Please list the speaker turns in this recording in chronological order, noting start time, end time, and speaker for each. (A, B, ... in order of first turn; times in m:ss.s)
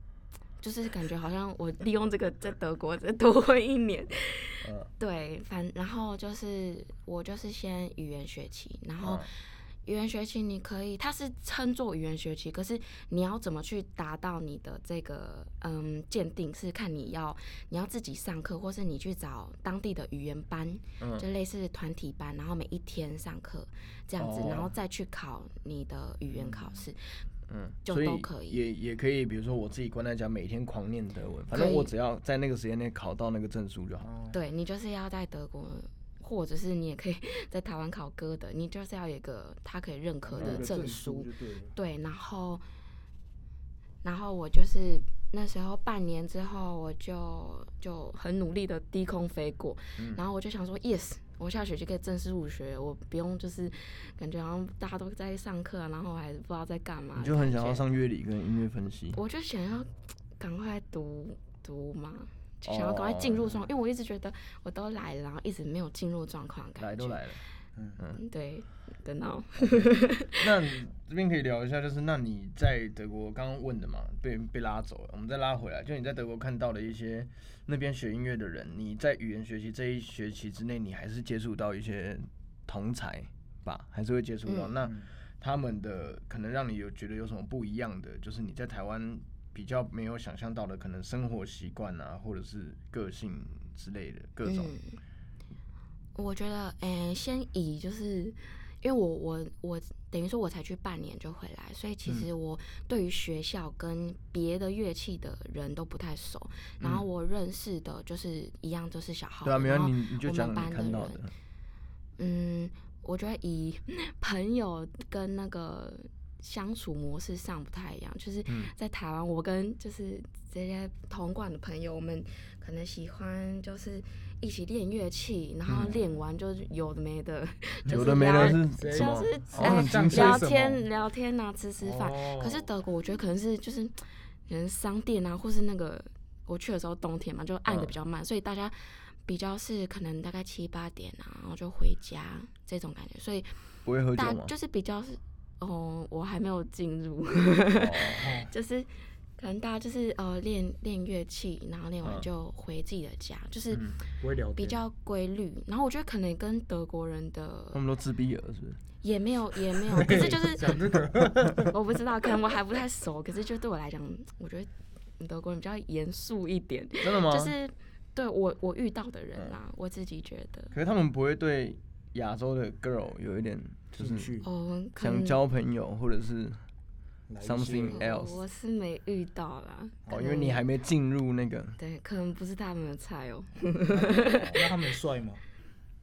0:00.6-0:27.2 A
0:04.6-0:04.9 B
0:09.0-0:09.3 B
0:21.0-0:21.2 B
0:24.2-0:24.7 B
0:26.3-0:26.8 C
0:27.5-0:34.1 B
0:27.8-0:28.6 A
0:31.5-0:31.9 A
0:34.0-0:34.4 C
0:34.3-0:42.6 A
0:40.3-0:41.7 C
0:40.4-0:40.7 B
0:44.0-0:57.8 A
0:57.2-0:59.2 B
0:59.1-1:07.2 A
1:02.6-1:03.5 B
1:06.8-1:07.4 B
1:08.1-1:10.5 A
1:09.7-1:34.7 B
1:24.4-1:24.7 A
1:34.4-1:35.0 A
1:36.2-1:51.2 A
1:49.4-1:51.3 B
1:52.2-2:23.5 A
1:58.5-1:58.7 B
2:05.7-2:05.9 B
2:07.9-2:10.4 B
2:07.9-2:10.8 C
2:11.8-2:12.7 C
2:17.7-2:17.9 B
2:23.8-2:24.5 B
2:24.2-2:33.9 A
2:27.7-2:28.3 B
2:28.2-2:28.5 C
2:33.7-2:34.0 B
2:34.2-2:34.8 C
2:34.6-2:37.8 A
2:37.7-2:38.8 B
2:39.0-2:41.0 A
2:39.9-2:41.7 C
2:41.7-2:50.7 A
2:47.0-2:47.5 B
2:50.7-2:54.3 B
2:54.0-2:54.5 C
2:54.4-2:55.4 A
2:55.0-2:56.6 B
2:57.3-2:58.0 C
2:57.4-2:58.4 B
2:57.9-3:00.6 A
3:00.1-3:01.8 B
3:01.8-3:04.5 A
3:04.0-3:04.7 B
3:04.5-3:05.4 C